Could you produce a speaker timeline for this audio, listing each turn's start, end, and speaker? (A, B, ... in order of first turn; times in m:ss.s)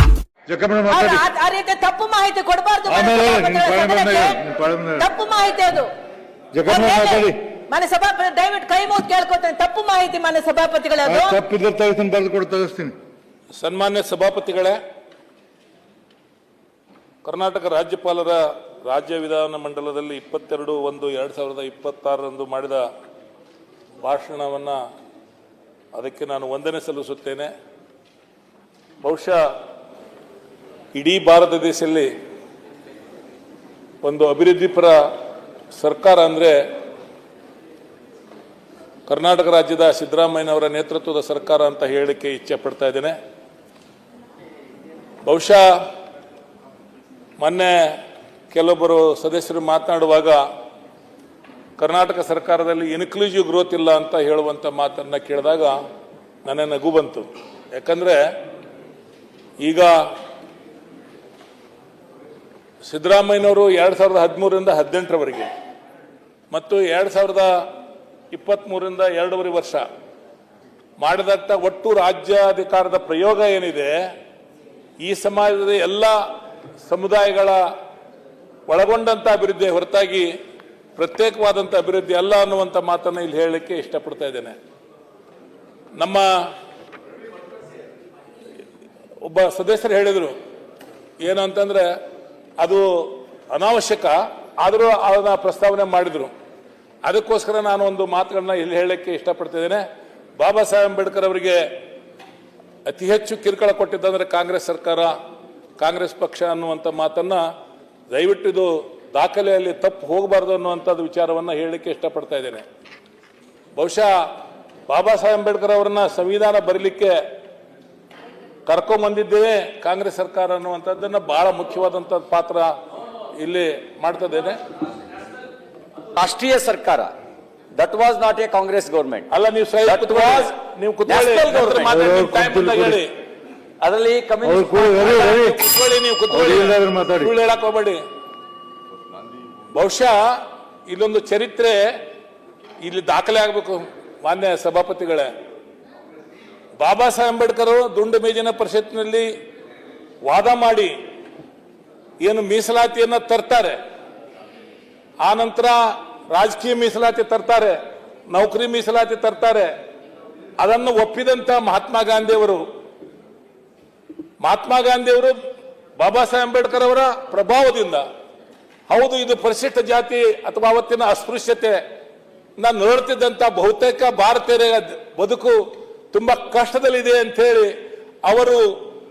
0:00.5-0:01.2 A
0:00.9-0:04.4 B
0:02.9-0:05.1 A
0:05.0-0:05.9 B
0:06.5-0:07.4 A
0:06.7-0:11.4 B
0:11.0-0:12.9 A
0:13.6-0:14.8 C
0:17.2-0:22.8 C
0:24.0-0:24.8 C
0:25.9-0:27.5 C
0:29.0-0:29.4 C
0:30.9-0:32.1 C
0:34.0-0:35.0 C
0:35.7-0:36.6 C
0:39.1-0:43.2 C
0:45.2-0:45.6 C
0:47.4-0:47.9 C
0:48.5-0:50.4 C
0:51.8-0:55.8 C
0:56.4-0:58.2 C
0:59.6-1:00.0 C
1:02.8-1:05.5 C
1:06.5-1:07.5 C
1:08.3-1:09.8 C
1:11.0-1:13.9 C
1:15.0-1:16.1 C
1:16.8-1:17.6 C
1:18.7-1:20.3 C
1:21.0-1:24.6 C
1:26.0-1:26.3 C
1:29.2-1:30.3 C
1:31.2-1:31.9 C
1:32.6-1:36.3 C
1:37.0-1:39.8 C
1:40.4-1:41.6 C
1:42.8-1:45.1 C
1:45.8-1:47.4 C
1:48.1-1:52.6 C
1:53.8-1:54.1 C
1:54.9-1:57.2 C
1:58.7-2:02.7 C
2:03.4-2:04.6 C
2:06.1-2:07.1 D
2:07.8-2:09.3 D
2:09.3-2:13.1 C
2:09.8-2:10.5 D
2:11.0-2:12.0 D
2:11.8-2:13.0 A
2:13.8-2:15.2 D
2:14.4-2:15.6 A
2:14.9-2:18.0 C
2:16.3-2:17.3 A
2:19.7-2:20.2 C
2:20.9-2:21.8 C
2:22.8-2:25.3 C
2:26.8-2:29.3 C
2:30.2-2:30.9 C
2:32.2-2:33.8 C
2:35.2-2:35.8 C
2:36.3-2:37.8 C
2:38.3-2:39.7 C
2:40.6-2:42.6 C
2:44.4-2:45.4 C
2:46.0-2:48.0 C
2:48.9-2:51.8 C
2:52.6-2:55.6 C
2:56.1-2:57.7 C
2:58.2-2:58.6 C